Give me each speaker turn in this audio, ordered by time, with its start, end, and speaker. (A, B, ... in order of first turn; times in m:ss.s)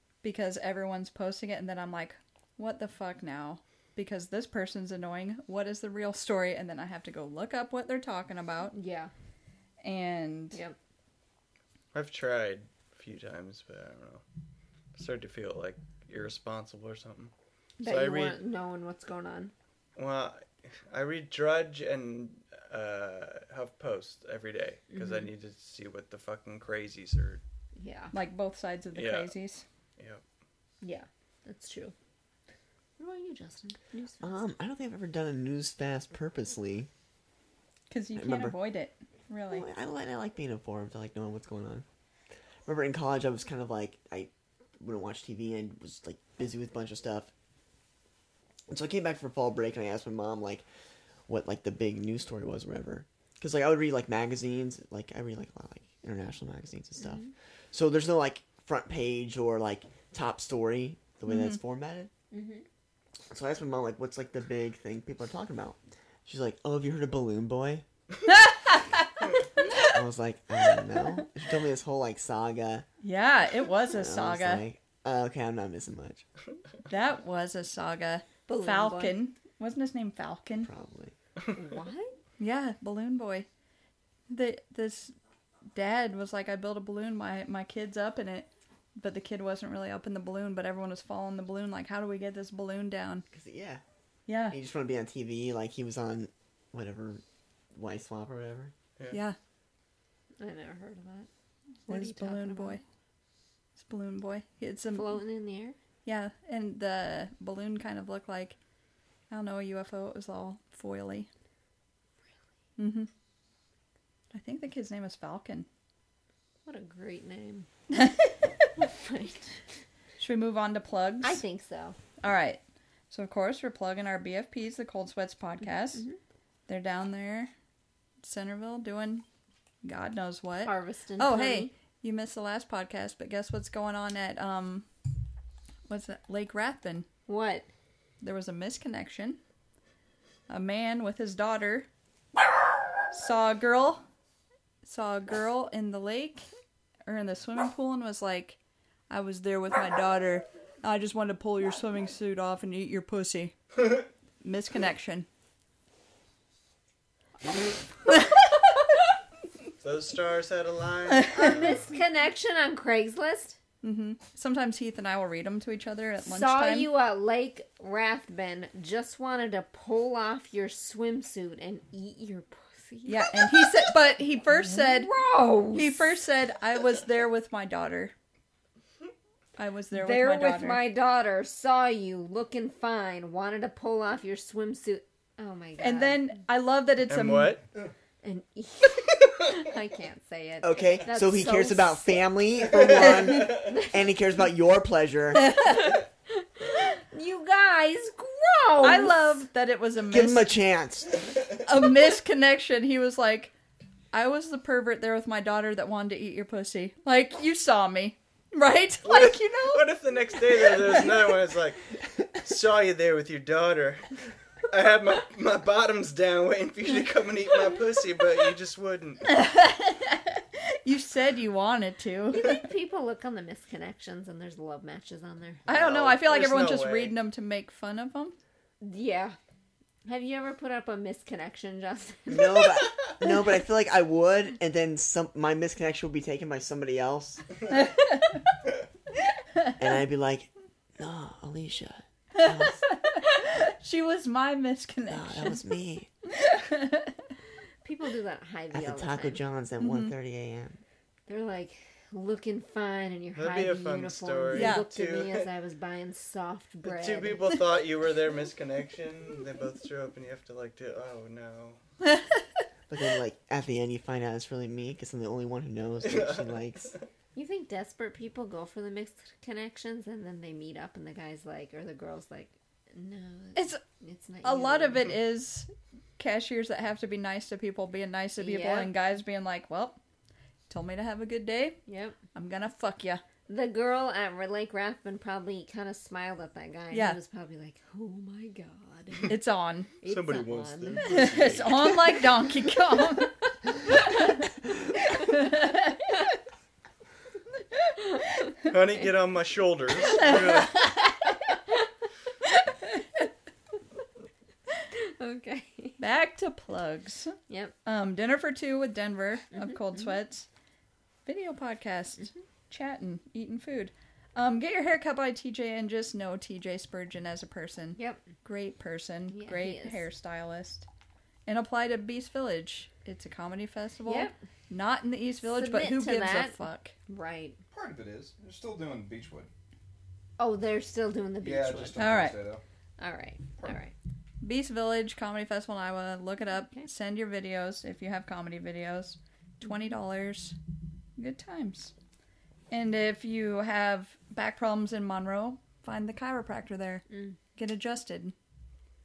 0:00.2-0:08.7 A
0:08.7-0:09.1 B
0:09.8-0:10.6 A
0:11.9-0:14.2 C
0:15.0-0:18.4 C
0:17.8-0:19.5 B
0:20.0-0:27.4 C
0:24.9-0:25.3 B
0:27.8-0:28.1 B
0:28.1-0:29.6 A
0:28.9-0:29.3 C
0:30.0-0:30.2 C
0:30.8-0:31.9 B
0:33.0-0:34.3 B
0:34.2-0:36.9 D
0:37.9-0:39.6 A
0:38.2-0:38.6 D
0:39.5-0:41.8 D
0:42.6-0:47.3 D
0:48.7-0:50.6 D
0:51.3-1:02.1 D
0:57.0-0:57.3 B
1:01.3-1:01.6 A
1:02.3-1:02.6 B
1:03.3-1:07.8 D
1:08.3-1:09.9 A
1:09.8-1:12.8 D
1:13.0-1:14.6 A
1:13.9-1:16.2 D
1:16.9-1:20.7 A
1:18.4-1:19.2 B
1:20.6-1:21.1 D
1:21.5-1:22.2 B
1:22.4-1:23.5 A
1:24.3-1:25.1 A
1:25.7-1:33.2 A
1:33.3-1:33.8 D
1:34.3-1:34.6 A
1:34.5-1:37.2 D
1:37.7-1:38.7 D
1:39.1-1:39.4 A
1:40.4-1:41.3 B
1:41.9-1:42.8 B
1:41.9-1:42.8 A
1:43.8-1:45.2 A
1:44.9-1:45.8 B
1:46.0-1:48.6 A
1:49.3-1:51.3 A
1:52.8-1:53.1 A
1:54.3-1:55.7 A
1:56.6-1:57.7 B
1:57.9-1:58.3 A
1:58.8-1:59.6 B
2:00.2-2:01.4 A
2:01.2-2:02.0 B
2:02.2-2:06.0 A
2:06.7-2:07.5 A
2:08.2-2:09.2 A
2:09.8-2:14.9 A
2:10.6-2:11.7 B
2:15.9-2:17.1 A
2:17.3-2:17.7 B
2:18.2-2:19.4 A
2:20.5-2:21.9 A
2:23.1-2:24.0 A
2:24.8-2:26.5 A
2:27.1-2:28.6 A
2:29.1-2:33.6 A
2:34.4-2:35.3 A
2:39.8-2:41.7 C
2:41.3-2:43.6 B
2:43.8-2:46.9 A
2:46.2-2:56.2 B
2:53.0-2:55.1 A
2:55.7-2:58.1 A
2:59.6-3:00.9 A
2:59.9-3:06.3 B
3:05.8-3:07.6 A
3:07.1-3:07.6 C
3:08.2-3:12.3 B
3:10.6-3:15.6 D
3:13.5-3:13.9 B
3:15.5-3:15.8 A
3:15.9-3:19.4 B
3:18.8-3:20.5 A
3:20.0-3:21.1 D
3:21.6-3:23.5 A
3:24.1-3:29.8 A
3:29.0-3:34.1 C
3:30.7-3:31.1 A
3:34.7-3:39.3 C
3:39.3-3:42.6 A
3:42.3-3:45.6 B
3:45.6-3:48.4 A
3:45.7-3:47.2 C
3:48.8-3:49.4 B
3:50.0-3:52.8 B
3:52.3-3:57.4 D
3:57.7-3:58.3 A
3:59.8-4:02.8 D
4:02.4-4:05.6 A
4:05.1-4:06.1 D
4:06.4-4:07.1 A
4:07.8-4:09.4 B
4:08.7-4:10.8 D
4:09.8-4:10.1 A
4:11.3-4:17.4 B
4:13.4-4:15.5 C
4:14.5-4:14.8 A
4:16.8-4:21.8 C
4:22.9-4:26.9 D
4:26.0-4:27.0 C
4:27.3-4:35.2 B
4:33.6-4:33.8 A
4:34.4-4:40.0 A
4:38.4-4:38.9 B
4:40.7-4:41.8 A
4:41.9-4:42.2 B
4:42.3-4:43.2 A
4:43.5-4:49.3 B
4:46.9-4:47.2 A
4:49.3-4:49.9 A
4:50.0-4:51.2 B
4:50.0-4:51.8 C
4:51.0-4:54.4 A
4:51.1-4:51.9 E
4:55.2-4:56.0 A
4:58.0-4:59.1 B
4:58.7-5:00.9 C
5:00.2-5:01.1 A
5:04.9-5:06.0 B
5:06.0-5:10.4 A
5:07.5-5:07.7 B
5:11.2-5:20.8 A
5:17.9-5:18.2 B
5:19.3-5:20.0 B
5:21.4-5:26.9 A
5:24.0-5:24.4 B
5:25.4-5:27.6 B
5:27.7-5:29.5 E
5:30.4-5:32.1 B
5:31.4-5:32.6 E
5:32.0-5:32.4 A
5:33.0-5:33.9 B
5:34.4-5:40.6 A
5:41.2-5:41.9 A
5:42.7-5:48.3 A
5:47.1-5:47.4 B